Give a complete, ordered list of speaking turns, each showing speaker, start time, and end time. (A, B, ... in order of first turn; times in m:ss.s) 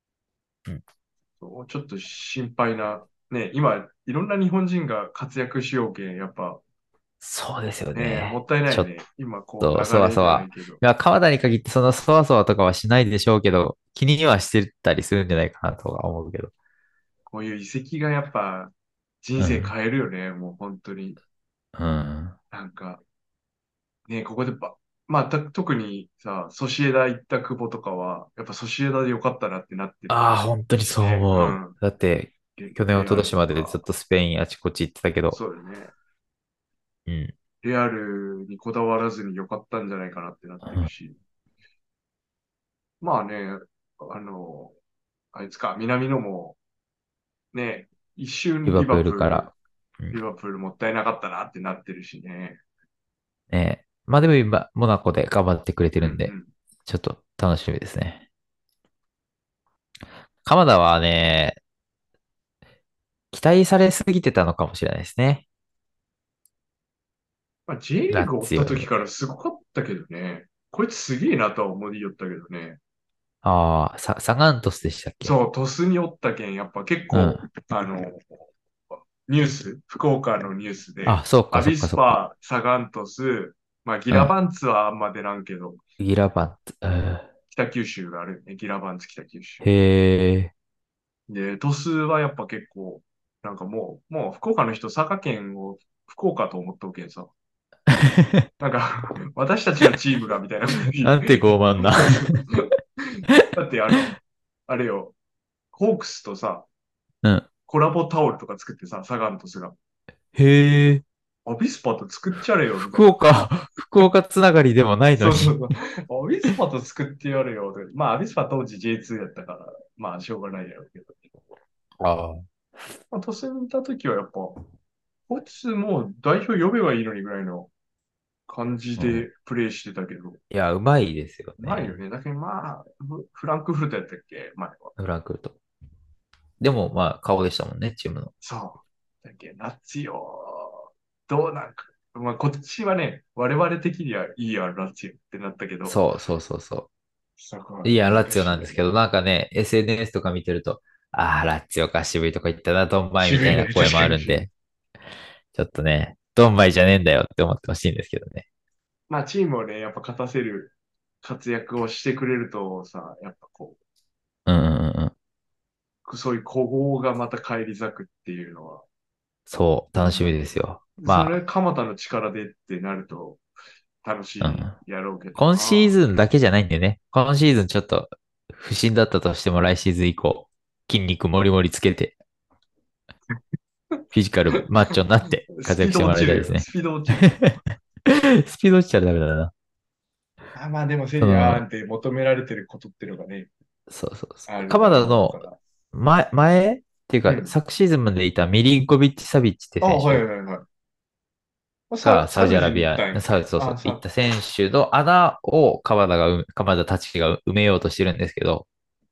0:01.4-0:06.6 A
0:07.2-0:08.9 B
0:07.9-0:10.8 A
0:09.6-0:16.5 B
0:17.2-0:21.2 A
0:19.4-0:19.7 B
0:21.8-0:22.4 B
0:22.5-0:23.0 A
0:24.1-0:30.3 A
0:30.1-0:35.4 B
0:30.8-0:31.8 A
0:32.6-0:33.8 A
0:35.3-0:35.9 A
0:37.1-0:37.3 B
0:37.6-0:41.2 A
0:40.6-0:40.9 B
0:43.0-0:44.7 A
0:45.3-0:46.6 A
0:47.5-0:49.5 A
0:48.6-0:50.2 B
0:50.1-0:52.6 A
0:53.5-0:56.3 B
0:56.0-0:56.5 A
0:56.8-0:58.2 B
1:00.4-1:01.6 B
1:03.3-1:05.4 B
1:07.7-1:12.8 A
1:08.1-1:08.9 B
1:13.4-1:15.4 B
1:15.2-1:18.4 A
1:17.1-1:17.4 B
1:19.2-1:25.8 A
1:21.0-1:22.2 B
1:26.0-1:27.3 B
1:27.5-1:29.6 A
1:29.6-1:30.5 B
1:31.3-1:37.3 A
1:37.9-1:38.4 B
1:38.6-1:42.6 A
1:41.0-1:42.4 B
1:43.2-1:44.1 A
1:44.7-1:45.1 A
1:45.7-1:46.6 A
1:47.7-1:49.7 A
1:50.3-1:51.0 B
1:51.4-1:53.3 A
1:52.9-1:55.6 B
1:55.1-2:01.2 A
2:02.0-2:02.4 B
2:03.1-2:04.6 A
2:05.3-2:07.7 A
2:08.5-2:10.4 A
2:09.0-2:09.3 B
2:10.5-2:12.0 B
2:11.6-2:14.9 A
2:15.0-2:15.6 B
2:16.6-2:18.3 B
2:18.4-2:26.0 A
2:25.8-2:26.9 B
2:27.4-2:28.8 A
2:27.8-2:34.5 B
2:33.2-2:34.4 A
2:35.5-2:38.4 B
2:39.1-2:43.8 A
2:44.5-2:45.1 B
2:46.0-2:48.8 A
2:49.5-2:51.4 B
2:50.0-2:50.4 A
2:51.0-2:53.4 A
2:54.0-2:56.0 A
2:54.4-2:54.7 B
2:55.4-3:02.1 B
3:04.1-3:06.6 B
3:05.5-3:07.4 A
3:07.2-3:07.6 B
3:08.1-3:09.5 B
3:10.5-3:13.5 A
3:11.2-3:11.6 B
3:13.9-3:20.2 B
3:14.5-3:15.6 A
3:17.2-3:17.5 A
3:19.8-3:20.6 A
3:21.9-3:24.0 A
3:22.0-3:28.6 B